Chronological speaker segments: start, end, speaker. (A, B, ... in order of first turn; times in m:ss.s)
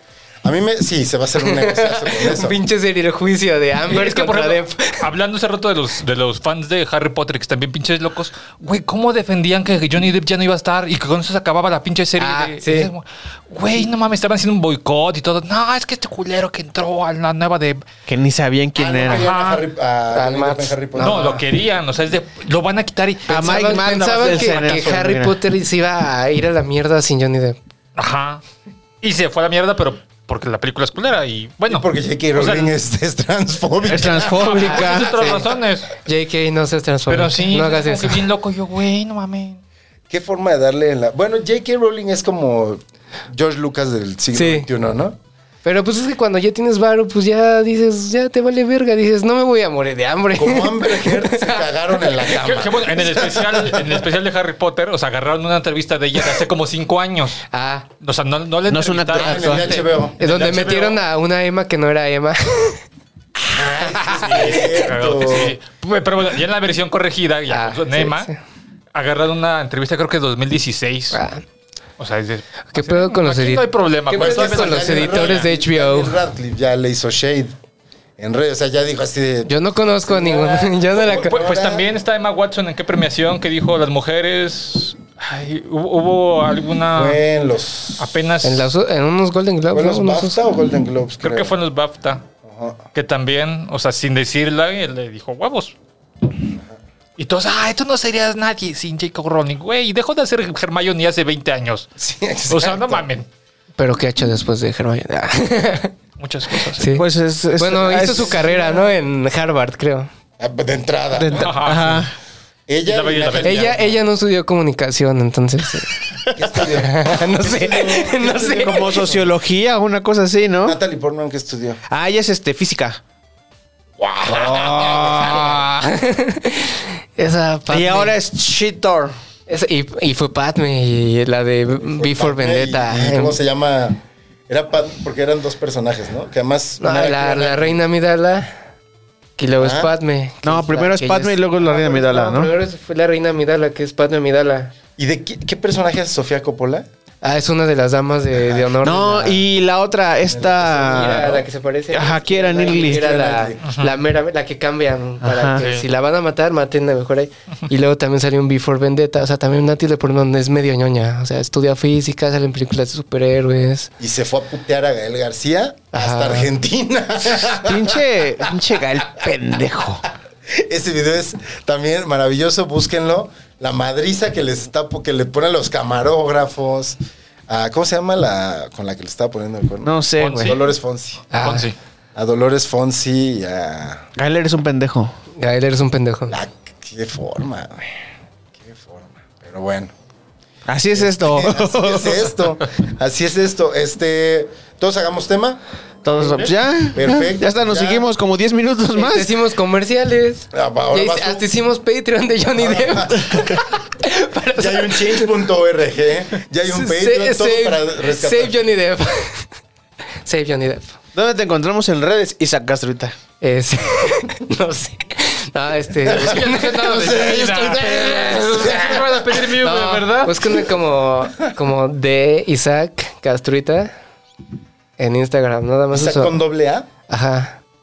0:00.4-0:02.6 A
0:01.4-0:05.0 B
0:03.9-0:17.8 C
0:12.2-0:12.9 B
0:18.1-0:19.3 D
0:18.8-0:21.4 A
0:19.1-0:19.6 C
0:20.1-0:21.4 B
0:21.0-0:23.8 C
0:23.3-0:25.4 D
0:23.3-0:27.6 B
0:28.0-0:28.4 C
0:29.0-0:32.7 C
0:31.7-0:34.7 A
0:33.9-0:35.2 D
0:34.3-0:35.9 C
0:34.9-0:38.2 B
0:37.1-0:39.6 C
0:40.1-0:45.2 A
0:44.3-0:44.7 B
0:45.6-0:51.7 B
0:50.4-0:54.0 A
0:52.3-0:57.4 C
0:57.5-0:57.9 B
0:58.0-1:01.0 C
0:58.7-0:59.7 D
0:59.1-1:00.2 A
0:59.7-1:02.8 B
1:03.4-1:05.6 A
1:03.8-1:04.6 B
1:04.3-1:08.3 C
1:07.5-1:08.4 B
1:08.9-1:11.2 C
1:11.1-1:11.4 B
1:12.0-1:15.5 C
1:12.7-1:16.2 B
1:14.1-1:17.5 A
1:18.2-1:21.9 A
1:19.5-1:21.4 B
1:21.2-1:27.2 C
1:26.9-1:28.1 A
1:28.0-1:28.7 C
1:28.4-1:30.4 B
1:29.7-1:31.6 A
1:31.2-1:32.2 C
1:32.4-1:32.9 A
1:32.9-1:35.7 C
1:36.4-1:36.8 A
1:37.2-1:41.9 C
1:42.0-1:43.1 A
1:42.5-1:43.3 C
1:43.8-1:45.9 B
1:46.2-1:47.0 C
1:46.7-1:50.1 B
1:46.9-1:48.6 D
1:47.9-1:48.9 A
1:50.4-1:52.0 A
1:51.1-1:52.1 D
1:51.3-1:52.0 C
1:52.7-1:54.0 A
1:52.9-1:53.8 C
1:53.4-1:55.9 B
1:56.3-1:59.3 A
1:56.6-1:59.0 B
1:58.6-2:00.8 D
2:00.6-2:01.8 A
2:01.9-2:03.0 D
2:04.0-2:05.7 A
2:04.4-2:08.2 B
2:04.8-2:05.3 C
2:07.7-2:09.1 D
2:09.5-2:13.4 B
2:11.7-2:17.8 A
2:16.8-2:18.5 B
2:19.4-2:24.7 B
2:19.6-2:19.9 A
2:20.4-2:22.5 D
2:25.0-2:26.9 A
2:27.2-2:29.4 B
2:28.3-2:28.8 A
2:28.8-2:31.4 D
2:30.2-2:31.5 A
2:30.8-2:43.9 B
2:31.9-2:33.2 D
2:32.1-2:33.8 A
2:33.6-2:33.9 C
2:35.2-2:35.6 D
2:35.6-2:35.8 C
2:44.0-2:48.0 A
2:45.9-2:46.5 B
2:47.6-2:50.0 D
2:50.5-3:01.2 A
2:59.8-3:00.5 D
3:00.2-3:00.6 C
3:01.3-3:01.7 B
3:01.3-3:01.8 C
3:02.1-3:04.1 A
3:04.2-3:05.1 D
3:05.4-3:06.4 B
3:06.3-3:08.0 A
3:08.6-3:09.9 A
3:10.7-3:12.3 D
3:10.9-3:15.6 A
3:16.0-3:19.3 D
3:16.2-3:16.5 C
3:16.9-3:18.1 A
3:18.9-3:25.3 B
3:20.5-3:21.5 A
3:22.6-3:23.6 A
3:24.5-3:28.6 A
3:26.6-3:29.5 B
3:30.2-3:31.0 B
3:31.1-3:33.2 D
3:33.4-3:37.1 B
3:36.0-3:39.5 A
3:36.1-3:40.4 C
3:39.6-3:43.9 B
3:45.0-3:46.4 B
3:45.9-3:46.9 A
3:47.1-3:47.6 B